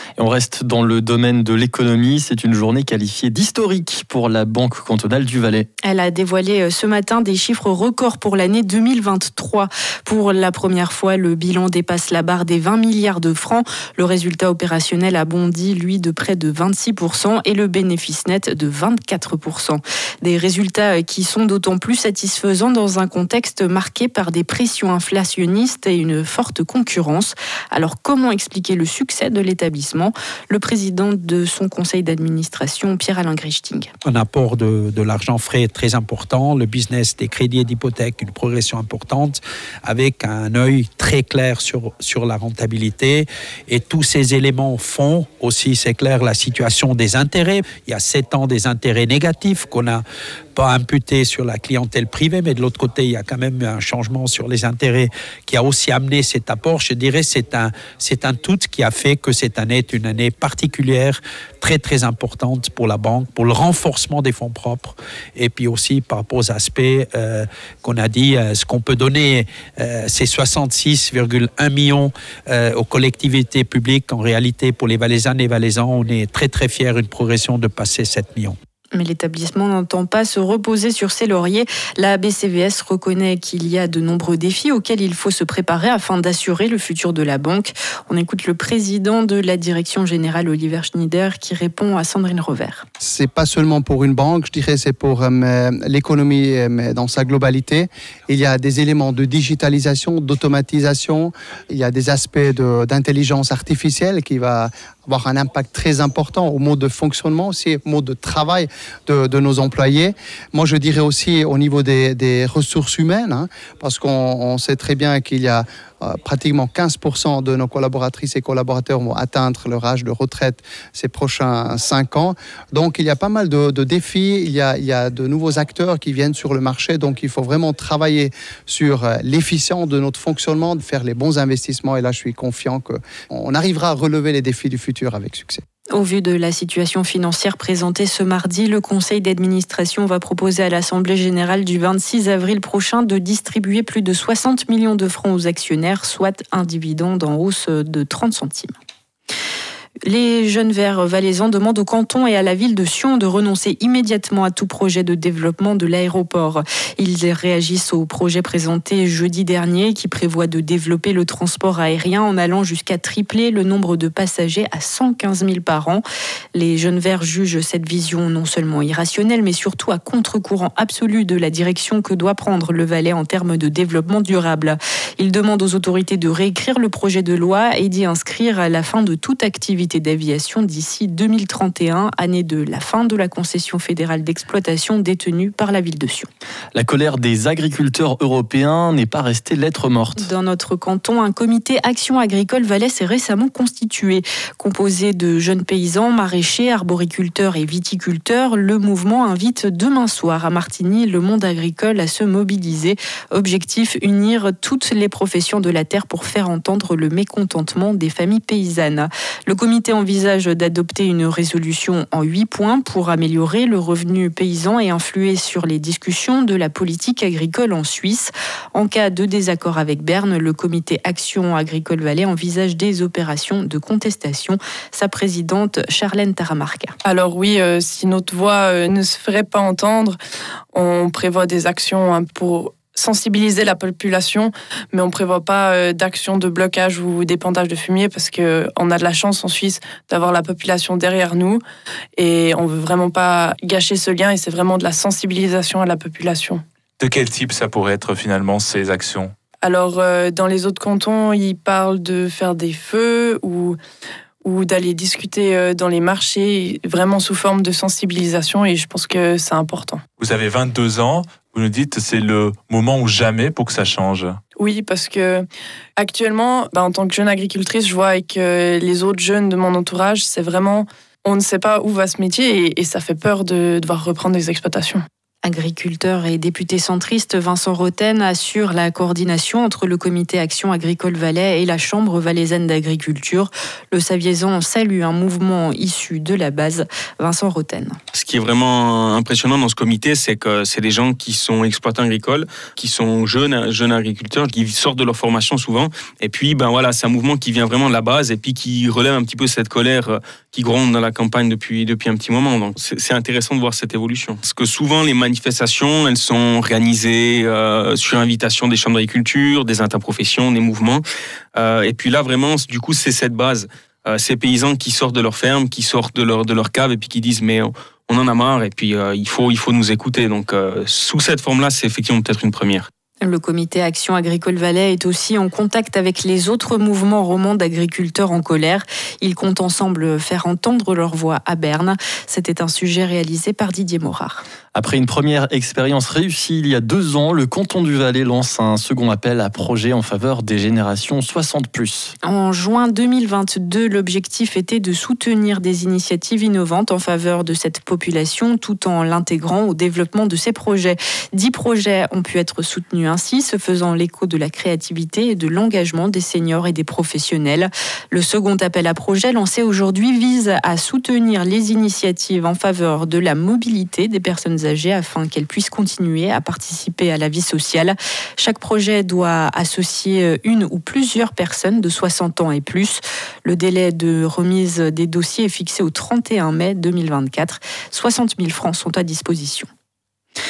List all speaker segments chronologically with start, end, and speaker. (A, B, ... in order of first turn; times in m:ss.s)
0:00.2-0:05.7 A
0:05.8-0:33.9 B
0:34.0-0:50.0 C
0:50.5-1:18.6 C
1:18.9-1:32.8 B
1:33.0-2:15.6 D
2:15.9-2:28.7 B
2:30.0-2:46.0 B
2:46.5-3:06.3 B
3:06.7-3:10.3 A
3:10.2-3:46.9 B
3:47.0-3:50.2 E
3:50.7-4:01.6 E
4:02.1-4:06.6 E
4:07.0-4:09.3 F
4:09.6-4:13.8 E
4:14.4-4:20.0 E
4:20.2-4:24.4 F
4:24.5-4:35.0 E
4:35.4-4:48.0 B
4:48.1-5:11.0 G
5:11.5-5:22.9 G
5:23.2-5:34.4 B
5:34.7-5:42.1 A
5:42.2-6:19.6 B